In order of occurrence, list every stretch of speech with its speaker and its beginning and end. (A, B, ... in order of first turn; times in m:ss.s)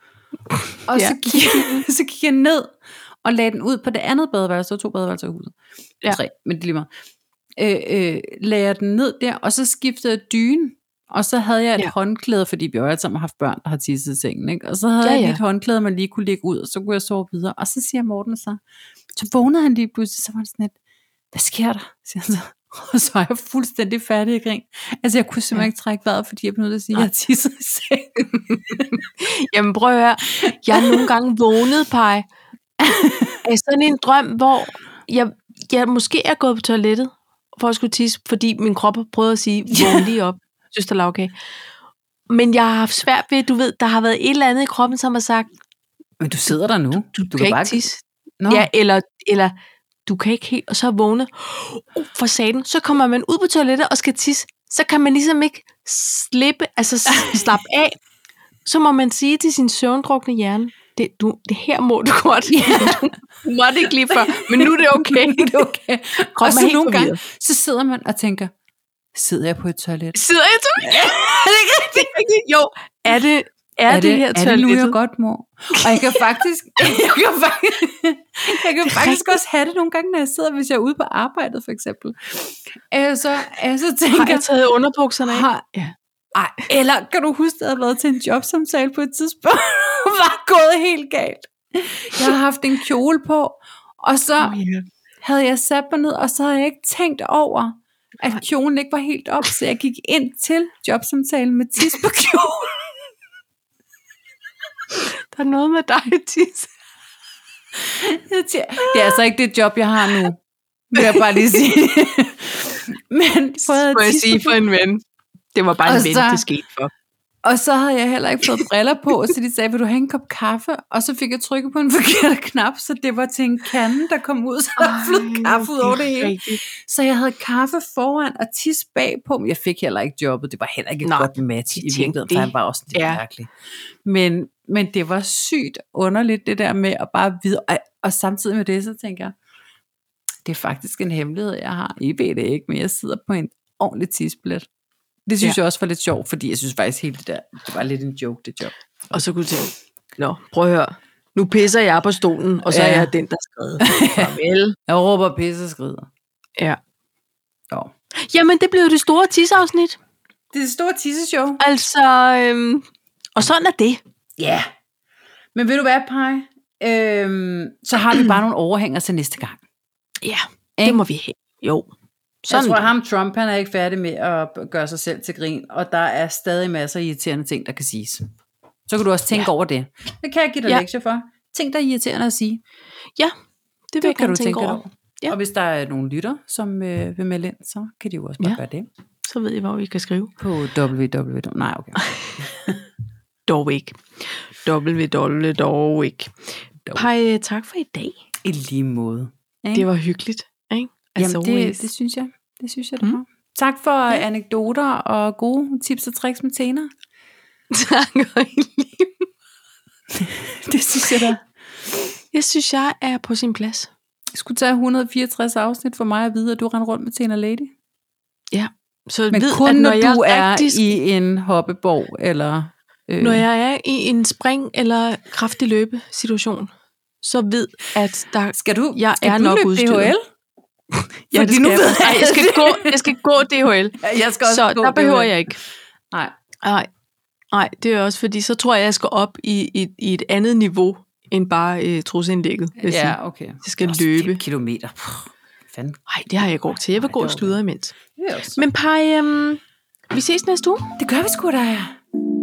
0:00.8-0:06.9 A
0:00.9-0:01.8 B
0:07.6-0:18.6 A
0:15.0-0:15.4 B
0:19.1-0:20.7 A
0:21.3-0:29.0 A
0:28.9-0:32.3 B
0:30.4-0:31.1 A
0:32.8-0:33.4 A
0:33.4-0:41.3 B
0:39.7-0:40.1 A
0:42.3-0:45.5 B
0:46.2-0:47.8 A
0:47.1-0:49.5 B
0:48.4-0:48.7 A
0:50.0-0:58.0 B
0:57.1-0:57.5 A
0:58.6-1:05.6 B
1:02.5-1:03.1 A
1:03.8-1:08.5 A
1:06.3-1:07.2 B
1:09.1-1:10.2 A
1:10.1-1:11.2 B
1:10.8-1:12.1 A
1:11.8-1:15.0 B
1:13.9-1:24.5 A
1:15.7-1:16.4 B
1:18.8-1:19.3 B
1:24.1-1:25.9 B
1:25.2-1:25.6 A
1:26.3-1:34.6 A
1:34.4-1:34.8 B
1:35.2-1:42.9 A
1:44.9-1:46.7 B
1:47.8-1:50.4 A
1:50.9-1:54.6 A
1:51.0-1:51.2 B
1:53.6-1:55.0 B
1:55.5-1:56.9 B
1:55.8-1:56.4 A
1:57.4-2:13.5 A
2:04.8-2:06.6 B
2:11.0-2:13.2 B
2:14.0-2:19.4 A
2:20.4-2:24.6 A
2:25.3-2:29.2 A
2:29.1-2:34.8 B
2:32.7-2:33.1 A
2:33.8-2:34.3 A
2:34.9-2:36.1 A
2:38.2-2:40.0 B
2:40.5-2:41.6 A
2:41.6-2:42.8 B
2:43.4-2:44.0 B
2:44.4-2:44.7 A
2:45.5-2:49.6 A
2:50.2-2:51.9 B
2:52.4-2:52.9 B
2:52.5-2:58.2 A
2:58.9-3:02.6 A
3:03.9-3:05.3 B
3:04.0-3:08.9 A
3:09.2-3:10.3 B
3:10.4-3:12.8 A
3:13.5-3:18.2 B
3:18.4-3:19.9 A
3:19.7-3:21.9 B
3:21.2-3:26.9 A
3:27.7-3:29.3 B
3:30.1-3:31.4 A
3:32.3-3:33.9 B
3:34.3-3:37.7 A
3:38.5-3:40.9 B
3:39.3-3:43.4 A
3:43.2-3:46.7 B
3:47.2-3:50.1 B
3:48.5-3:50.2 A
3:51.3-3:55.6 B
3:51.3-3:53.1 A
3:54.0-3:55.5 A
3:56.6-3:56.9 B
3:57.5-4:04.4 B
4:02.8-4:07.6 A
4:06.1-4:08.0 B
4:08.1-4:08.6 A
4:08.6-4:10.9 B
4:11.0-4:12.0 A